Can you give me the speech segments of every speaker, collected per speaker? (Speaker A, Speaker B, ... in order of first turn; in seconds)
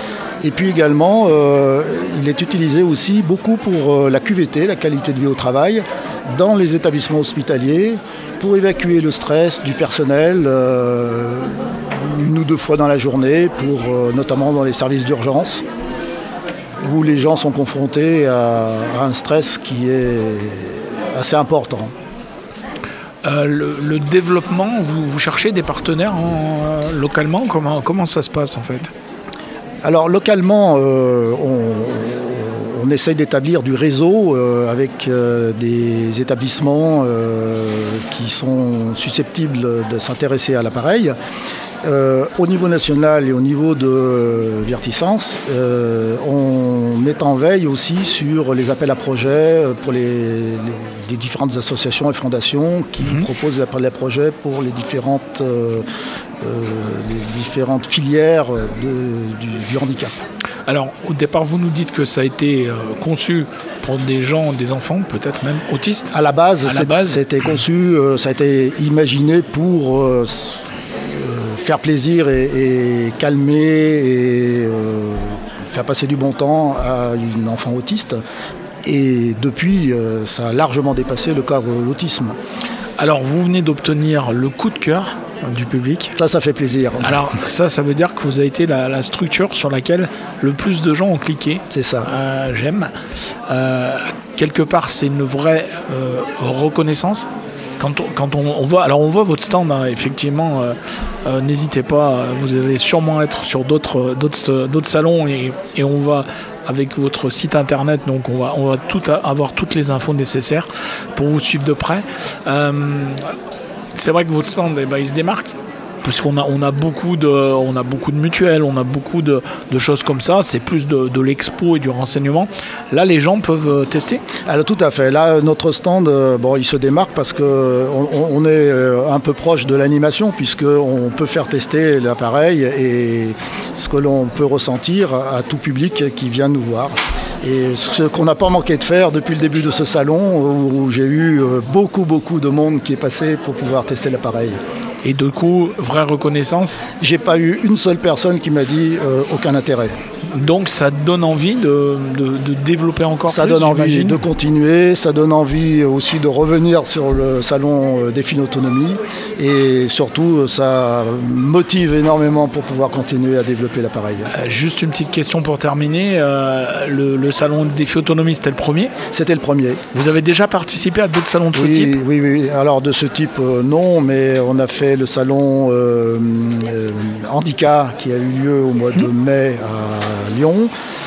Speaker A: 0.4-15.6, 16.8-21.9, 29.8-41.1, 41.8-55.8, 56.4-60.2, 66.1-78.2, 78.8-82.3, 86.2-87.2, 91.7-92.1, 124.4-144.6, 147.0-149.9, 153.3-164.3, 169.1-169.8, 171.5-180.7
Speaker B: 23.2-28.9, 53.0-53.3, 60.7-66.1, 66.6-67.2, 83.0-86.1, 87.0-92.9, 93.5-113.2, 113.9-124.2, 145.0-146.8, 150.3-154.2, 164.3-168.9, 169.9-172.0